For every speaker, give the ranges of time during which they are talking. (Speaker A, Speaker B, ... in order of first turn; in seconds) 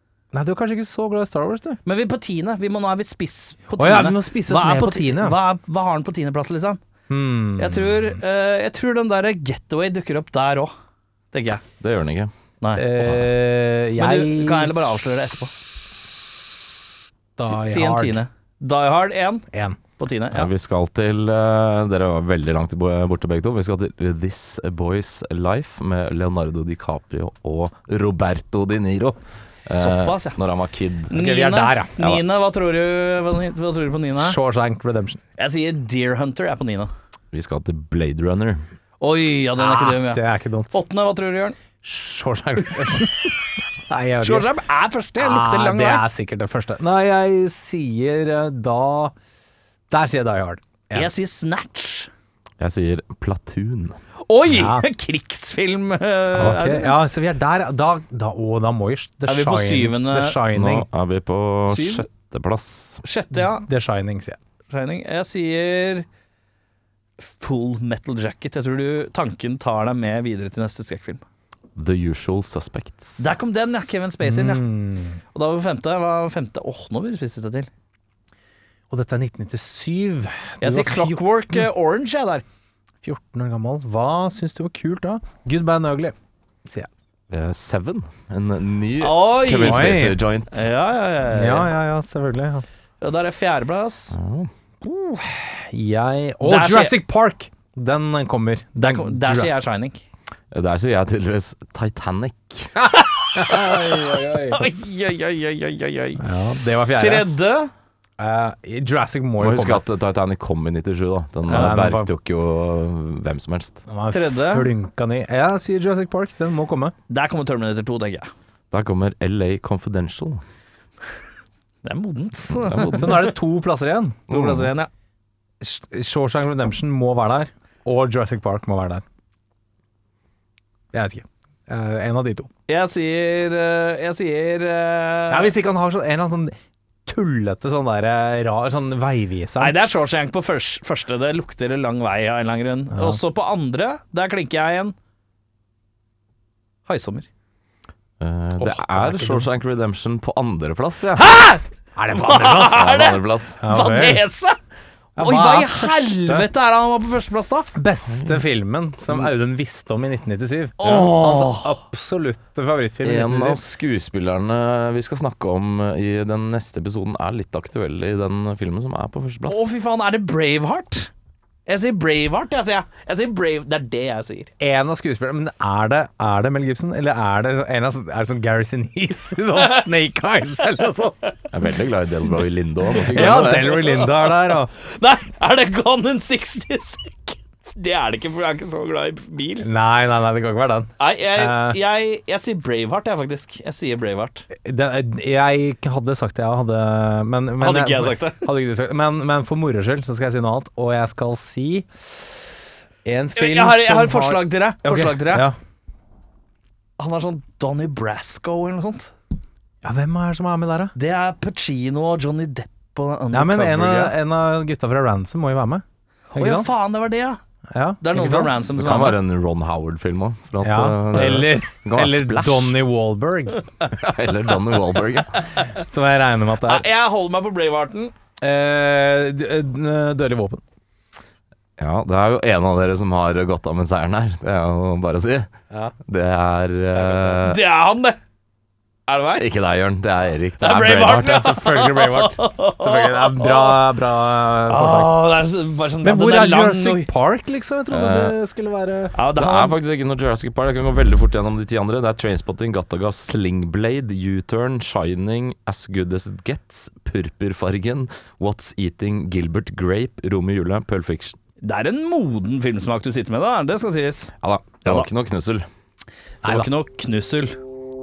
Speaker A: 0.3-1.8, 3.8-5.4, 7.1-8.0, 12.8-15.0, 17.4-18.2, 19.5-19.8, 31.1-31.9, 34.1-35.2, 39.6-40.8, 41.8-44.5, 45.2-49.1, 49.9-51.1, 54.5-54.9, 56.3-60.9, 63.3-64.4, 74.2-75.2, 78.9-81.7, 83.0-86.2, 89.6-90.2, 91.3-92.7, 94.8-99.6, 102.9-104.7, 106.2-107.3, 108.2-109.8, 111.5-112.1, 113.9-116.9, 123.0-124.2, 125.6-129.0, 130.9-132.5, 135.3-136.5, 137.1-139.8, 142.9-143.2, 148.6-149.5, 152.0-152.8, 153.6-154.2, 155.2-156.5, 157.8-163.6, 174.6-181.3, 183.1-184.7, 189.6-191.8, 194.7-201.9, 203.1-205.6, 209.8-210.9, 213.3-215.8, 216.3-216.7, 217.7-218.6, 220.6-223.7, 225.8-226.9, 228.4-230.6, 236.9-237.4, 241.2-245.2, 246.0-249.2, 266.4-266.7
Speaker B: 1.9-6.8, 7.6-10.7, 11.3-11.6, 12.6-12.9, 14.0-15.5, 17.4-19.5, 20.0-20.5, 29.8-30.4, 31.1-34.4, 35.4-36.9, 39.0-41.6, 44.2-46.1, 50.9-52.1, 54.2-57.0, 59.3-60.4, 61.7-62.1, 63.0-63.7, 64.7-66.1, 67.2-71.2, 73.2-74.7, 75.3-77.7, 80.6-82.4, 89.0-91.7, 93.0-94.2, 96.4-97.0, 98.8-100.0, 103.1-106.2, 106.9-107.7, 111.5-111.8, 114.1-114.7, 117.1-118.3, 121.8-123.3, 124.3-124.9, 132.7-135.5, 139.6-144.9, 146.9-147.3, 151.2-154.6, 155.2-157.7, 160.8-161.8, 169.5-171.1, 171.7-174.5, 179.6-179.9, 182.9-189.7, 191.0-194.5, 197.6-198.5, 203.4-205.5, 207.0-209.1, 210.9-214.1, 216.3-217.4, 218.0-219.2, 221.1-221.5, 226.6-228.1, 237.4-238.2, 239.1-239.5, 240.6-244.0, 244.7-247.1, 249.1-249.8, 261.6-265.1, 266.4-267.6
Speaker C: 11.8-12.3, 20.3-31.1, 32.0-32.2, 37.3-38.6, 52.6-54.0, 60.5-63.0, 71.8-73.3, 87.3-90.7, 94.1-94.5, 100.5-102.7, 109.4-113.8, 118.7-120.4, 122.7-123.3, 124.3-124.7, 148.2-151.2, 152.5-153.6, 158.1-158.4, 160.8-161.1, 163.0-169.7, 181.5-183.8, 218.8-222.8, 223.9-225.5, 231.8-235.5, 236.1-237.6, 239.4-241.5, 247.9-248.4, 249.3-261.4, 264.4-265.7